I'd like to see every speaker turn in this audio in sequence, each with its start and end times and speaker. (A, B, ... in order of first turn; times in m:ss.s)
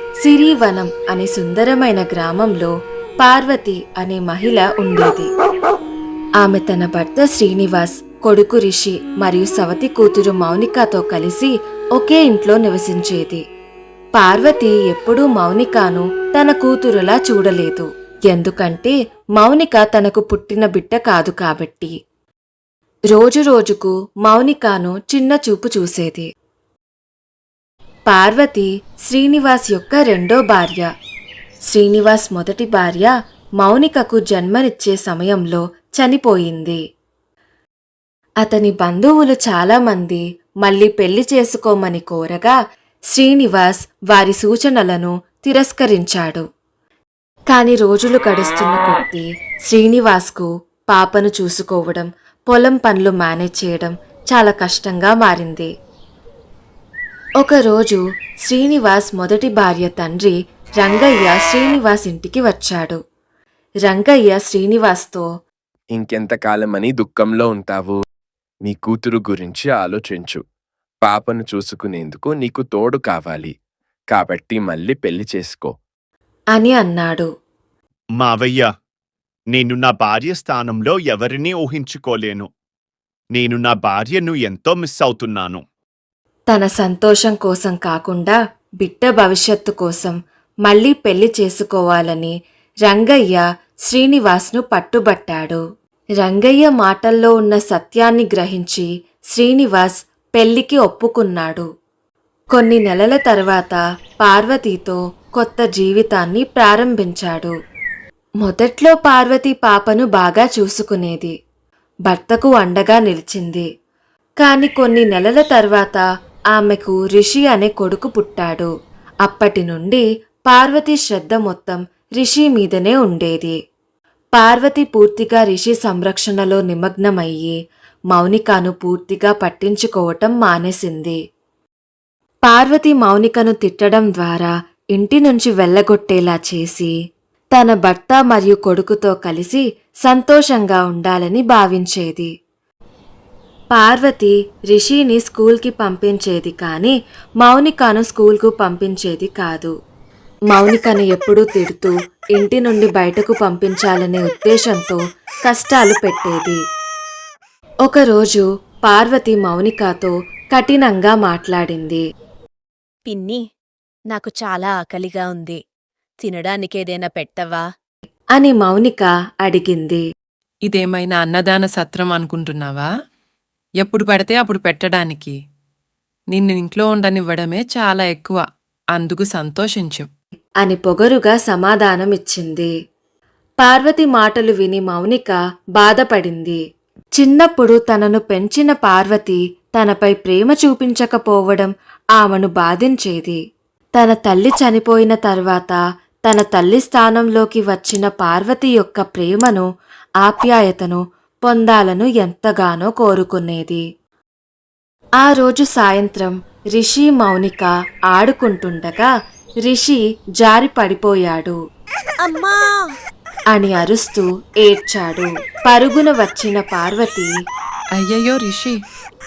0:00.2-0:02.7 A
0:03.2-0:05.3 A
0:06.4-0:13.4 A
0:14.2-0:21.9 A
0:23.1-0:26.3 A
0:28.1-0:30.9 A
0:31.7-0:36.8 A
0:38.4-0:42.6 A
0:43.1-0:46.4 A
0:47.5-0:55.7 A
0:57.4-1:03.0 A
1:03.9-1:05.2 A
1:05.9-1:08.0 B
1:08.6-1:10.4 B
1:11.0-1:13.5 B
1:14.1-1:15.8 B
1:16.6-1:17.3 A
1:18.2-1:18.7 C
1:19.5-1:22.5 C
1:23.3-1:25.6 C
1:26.5-1:32.3 A
1:32.9-1:35.6 A
1:36.2-1:41.6 A
1:42.5-1:47.5 A
1:48.4-1:51.3 A
1:52.1-1:53.7 A
1:54.4-1:56.0 A
1:56.5-1:58.7 A
1:59.2-2:03.6 A
2:04.4-2:07.6 A
2:08.1-2:11.2 A
2:12.5-2:16.9 A
2:17.5-2:22.3 A
2:23.7-2:29.7 A
2:30.5-2:36.6 A
2:37.9-2:42.0 A
2:43.1-2:43.4 D
2:44.1-2:45.6 D
2:46.2-2:47.6 D
2:48.4-2:50.0 A
2:50.7-2:52.9 E
2:53.8-2:55.3 E
2:56.3-2:58.4 E
2:58.9-3:00.1 E
3:00.6-3:02.7 A
3:03.6-3:06.6 A
3:07.2-3:13.4 A
3:14.0-3:19.6 A
3:20.2-3:23.8 A
3:25.2-3:29.1 A
3:29.7-3:31.6 A
3:32.2-3:32.6 D
3:33.5-3:37.3 A
3:38.0-3:38.8 E